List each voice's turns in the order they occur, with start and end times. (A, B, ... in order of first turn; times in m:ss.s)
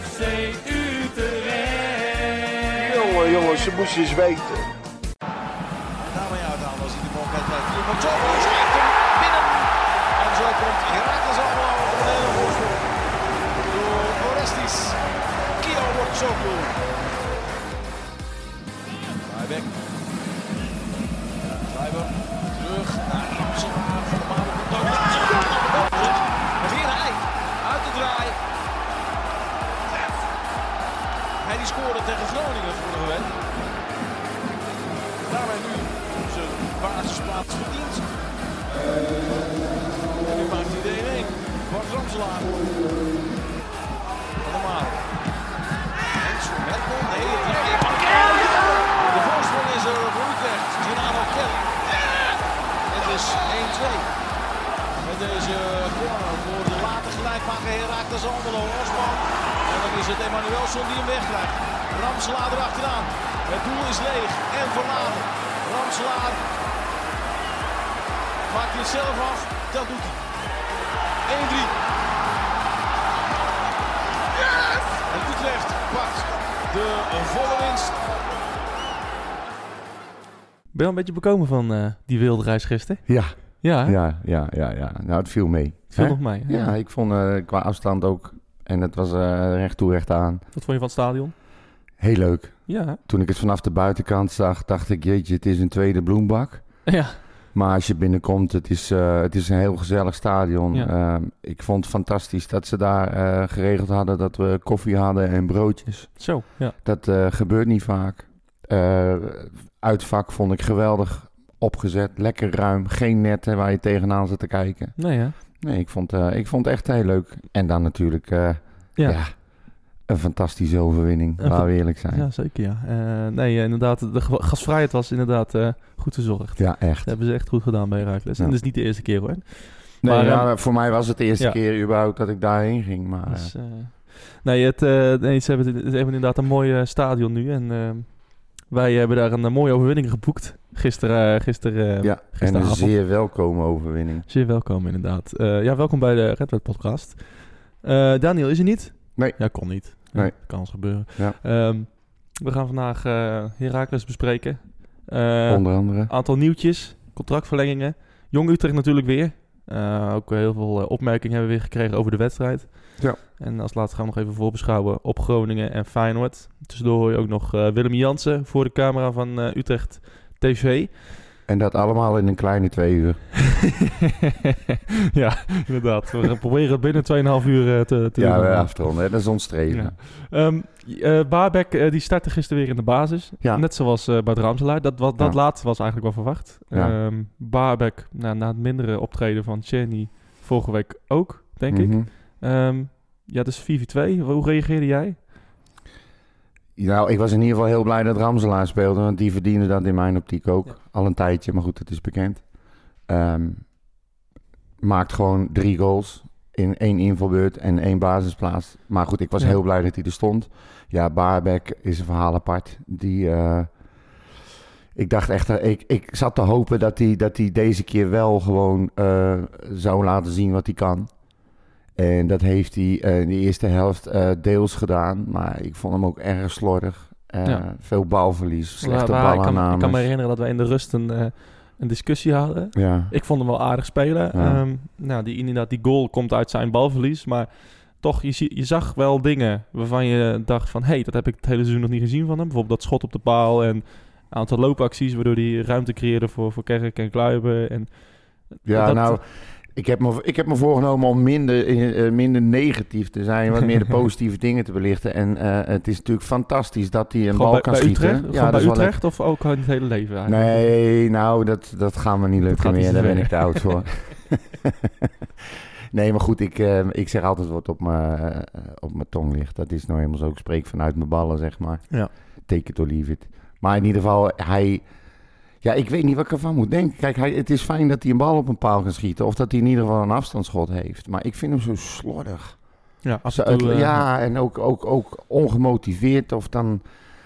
0:06.0-0:12.8 A
0:13.5-0:15.0 A
0:15.6-0:16.8 A
0:19.2-0:19.7 A
0:21.4-0:28.4 A
0:31.4-0:33.4 A
0:35.2-0:38.1 A
0:39.1-0:42.8 A
0:44.4-0:45.1 A
0:46.1-0:54.1 A
0:55.0-1:06.4 A
1:08.5-1:10.2 A
1:11.2-1:11.7 A
1:15.0-1:18.0 A
1:20.7-1:24.0 B
1:23.0-1:30.4 C
1:25.9-1:26.7 B
1:30.5-1:31.3 B
1:32.0-2:02.3 C
1:32.7-1:33.0 B
1:36.8-1:37.2 B
1:46.2-1:46.8 B
1:55.0-1:55.4 B
1:59.0-1:59.2 B
2:01.4-2:11.6 B
2:06.6-2:07.2 C
2:10.0-2:13.6 C
2:13.2-2:22.9 B
2:22.0-2:24.3 C
2:24.3-2:51.1 B
2:29.2-2:31.4 C
2:35.5-2:36.1 C
2:51.5-2:53.3 C
2:54.4-2:59.1 B
2:58.1-3:00.0 C
2:59.7-3:15.3 B
3:06.7-3:07.0 C
3:11.7-3:12.1 C
3:16.8-3:23.7 C
3:24.8-3:33.7 C
3:34.9-3:41.2 C
3:41.9-3:50.0 C
3:48.8-4:09.2 B
3:52.7-3:53.1 C
3:54.3-3:54.6 C
4:08.6-4:19.0 C
4:17.3-4:20.7 B
4:20.2-4:25.1 C
4:22.4-4:23.7 B
4:25.9-4:34.8 C
4:35.6-4:42.6 C
4:43.0-4:44.0 B
4:43.2-4:46.8 C